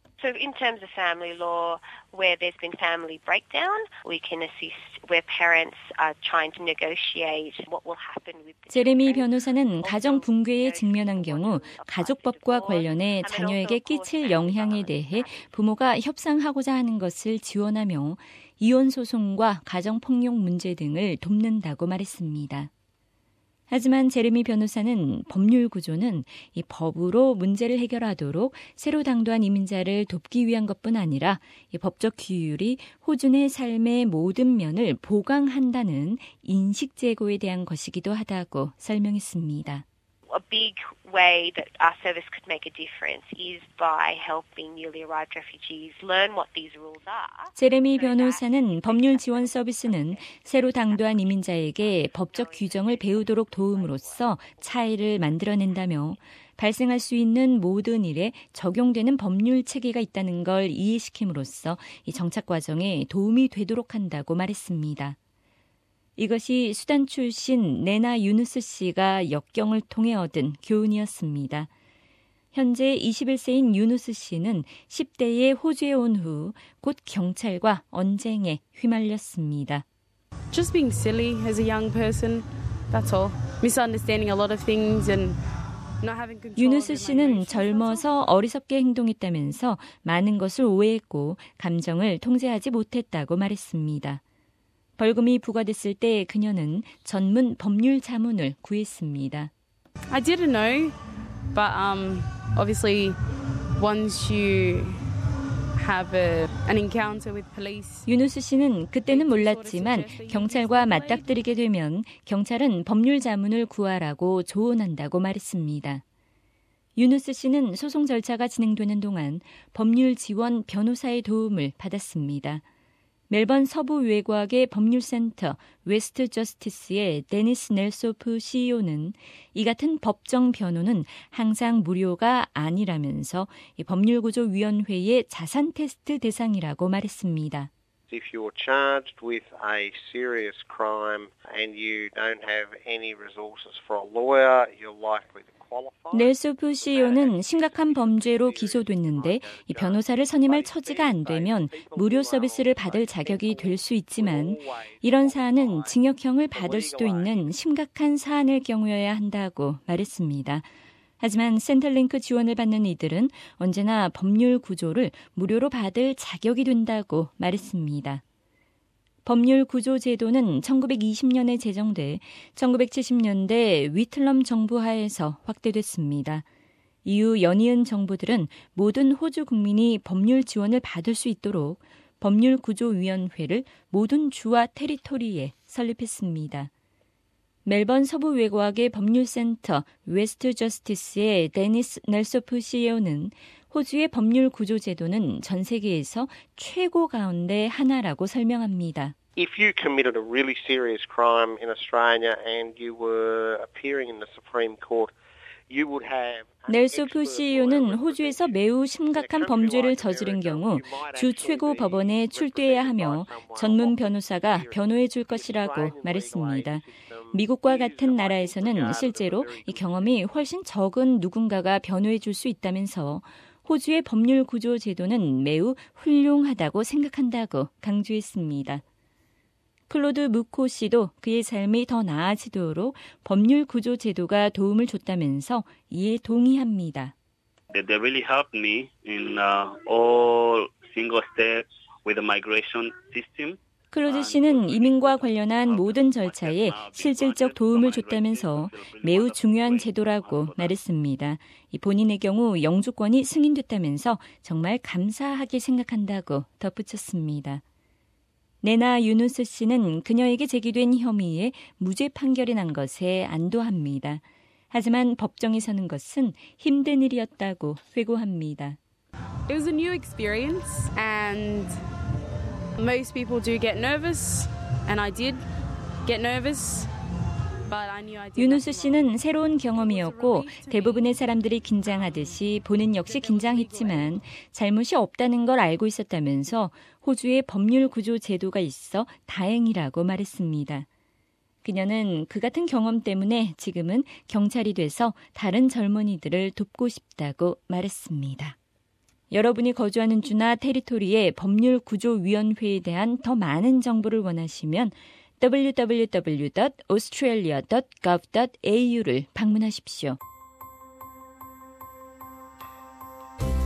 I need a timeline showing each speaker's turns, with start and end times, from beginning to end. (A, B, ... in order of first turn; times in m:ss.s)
0:00.2-0:15.5 A
0:08.7-0:22.7 B
0:23.7-0:39.8 B
0:40.3-0:55.8 A
0:47.6-1:05.2 B
1:06.2-1:11.7 B
1:12.5-1:19.8 B
1:20.5-1:25.4 C
1:26.0-1:28.1 C
1:26.6-1:34.2 B
1:35.0-1:39.5 B
1:40.1-1:40.9 C
1:41.5-1:43.2 C
1:43.8-1:44.9 C
1:45.8-1:48.1 C
1:48.1-1:56.0 B
1:49.0-1:51.4 C
1:57.0-2:02.6 B
2:03.3-2:17.7 B
2:18.1-2:36.0 D
2:26.1-2:40.7 B
2:36.5-2:37.5 D
2:41.2-2:48.2 B
2:49.2-2:56.4 B
2:57.0-3:06.7 B
3:07.7-3:19.2 B
3:19.4-3:25.1 D
3:25.7-3:28.6 D
3:26.7-3:48.8 B
3:29.1-3:40.2 D
3:49.9-3:57.1 B
3:57.7-4:10.7 E
4:03.9-4:17.6 B
4:18.6-4:28.8 B
4:29.5-4:31.7 C
4:32.8-4:35.4 C
4:36.0-4:36.9 C
4:37.6-4:41.1 C
4:38.4-4:50.9 B
4:41.8-4:42.4 C
4:43.0-4:44.1 C
4:51.6-4:58.6 B
4:59.3-5:10.2 B